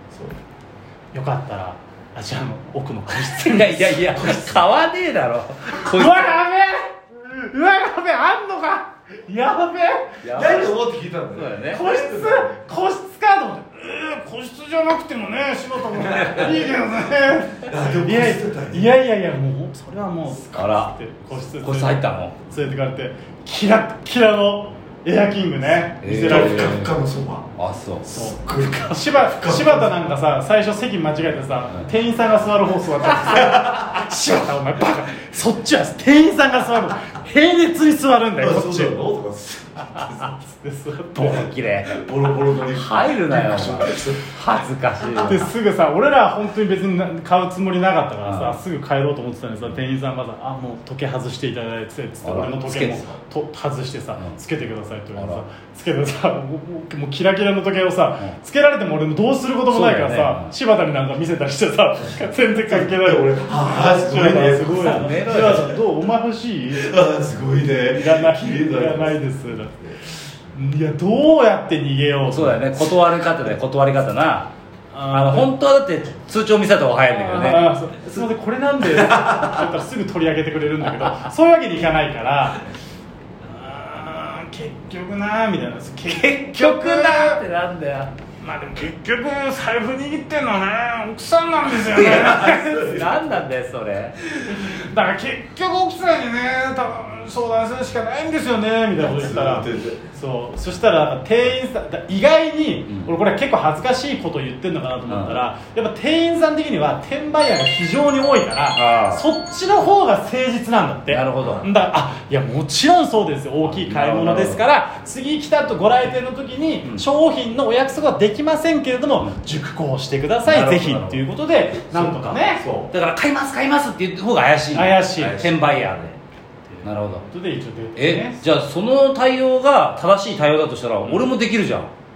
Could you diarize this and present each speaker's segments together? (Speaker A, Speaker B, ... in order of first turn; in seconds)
Speaker A: 0.1-0.4, 10.2-12.6, 16.1-16.6, 17.6-18.9, 26.2-27.5, 28.0-29.9, 33.4-33.8, 38.4-40.3, 41.9-44.3, 62.7-65.8, 66.7-70.0, 79.1-79.5, 92.0-93.1, 99.0-100.0, 121.9-122.9, 125.2-126.1
Speaker B: 1.1-4.6, 5.7-10.2, 11.7-26.8, 28.1-39.0, 40.0-41.4, 45.1-67.0, 67.8-72.9, 74.9-75.5, 77.1-82.6, 83.4-87.4, 88.4-93.4, 94.4-122.6, 124.7-125.4, 126.7-128.4, 131.0-131.3
Speaker C: 3.4-6.3, 10.2-10.7, 11.3-11.8, 16.1-16.5, 20.5-22.4, 26.0-26.9, 27.6-28.1, 41.1-42.0, 42.7-45.5, 48.2-48.6, 52.2-53.1, 55.1-55.4, 59.7-60.5, 64.6-65.8, 72.3-74.5, 75.1-77.7, 86.0-88.1, 91.7-94.2, 105.1-105.4, 108.8-109.2, 111.1-111.7, 113.6-114.6, 120.4-121.2, 122.9-126.1, 126.8-127.2, 127.9-131.9